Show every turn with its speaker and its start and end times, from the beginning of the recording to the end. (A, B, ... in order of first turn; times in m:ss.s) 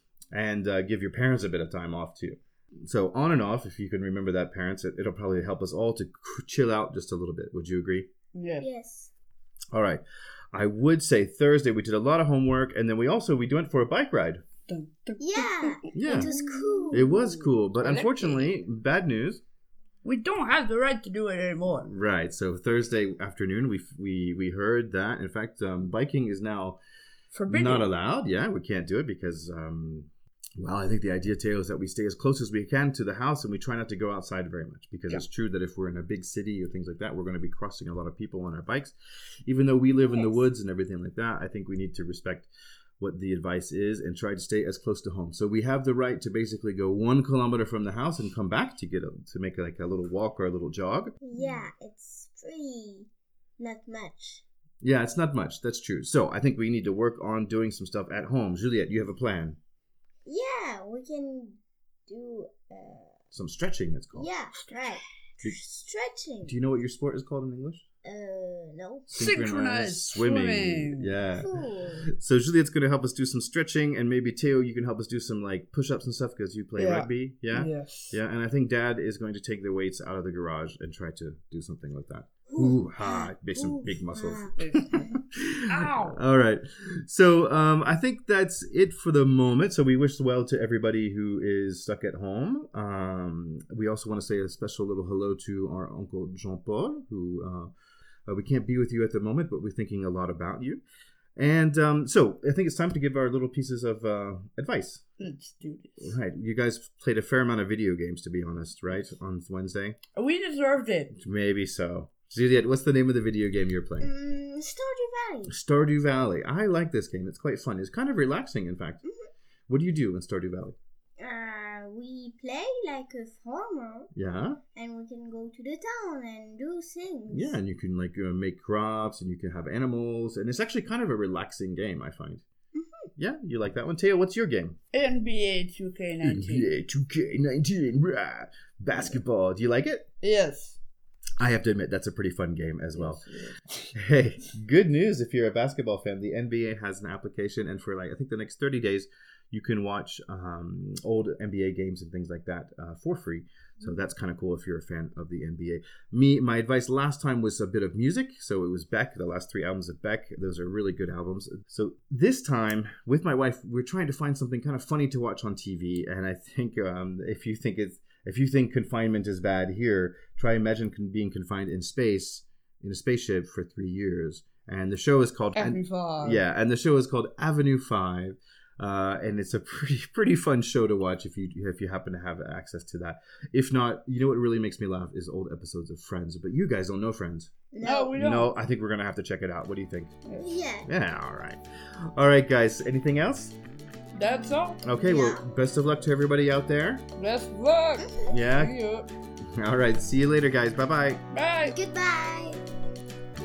0:00.3-0:08.1 A
0:08.3-0:08.7 B
0:08.6-0:09.1 C
0:09.7-0:14.4 A
0:14.7-0:17.1 B
0:15.2-0:17.6 C
0:15.9-0:16.3 A
0:16.9-0:19.4 A
0:17.8-0:18.5 B
0:20.0-0:21.9 B
0:21.7-0:26.8 A
0:27.3-0:27.9 B
0:27.5-0:38.9 A
0:39.5-0:51.1 A
0:40.0-0:40.4 C
0:51.2-0:54.4 C
0:54.8-0:59.6 A
1:00.2-1:03.1 C
1:03.3-1:04.3 A
1:04.1-1:06.5 C
1:06.4-1:07.8 A
1:08.0-1:09.1 C
1:09.1-1:11.2 B
1:09.1-1:11.5 A
1:11.3-1:12.1 C
1:12.1-1:24.5 A
1:16.8-1:18.2 B
1:22.5-1:25.1 C
1:24.6-1:25.1 B
1:25.3-1:37.7 A
1:25.7-1:26.2 B
1:38.3-1:40.8 A
1:41.4-1:45.0 A
1:45.2-1:46.1 B
1:46.0-1:50.0 A
1:50.2-1:51.1 B
1:51.1-1:54.1 A
1:54.0-1:55.5 C
1:55.5-1:59.0 A
1:59.7-2:00.8 A
2:01.2-2:04.1 C
2:04.1-2:04.6 A
2:04.8-2:07.6 C
2:07.3-2:12.4 A
2:12.7-2:13.1 C
2:13.2-2:14.8 A
2:14.9-2:16.7 B
2:16.2-2:20.1 A
2:20.2-2:20.8 B
2:21.4-2:23.2 A
2:22.9-2:23.8 B
2:23.9-3:07.5 A
2:55.5-2:56.4 B
3:07.7-3:08.2 C
3:07.8-3:08.5 B
3:08.1-3:10.1 A
3:10.2-3:10.6 B
3:10.4-3:10.9 C
3:10.8-3:13.6 A
3:14.1-3:14.8 B
3:14.8-3:17.0 A
3:15.0-3:15.4 C
3:17.2-3:19.1 B
3:18.0-3:18.3 C
3:18.3-3:18.8 A
3:19.6-3:21.2 A
3:21.3-3:21.8 B
3:21.6-3:22.6 C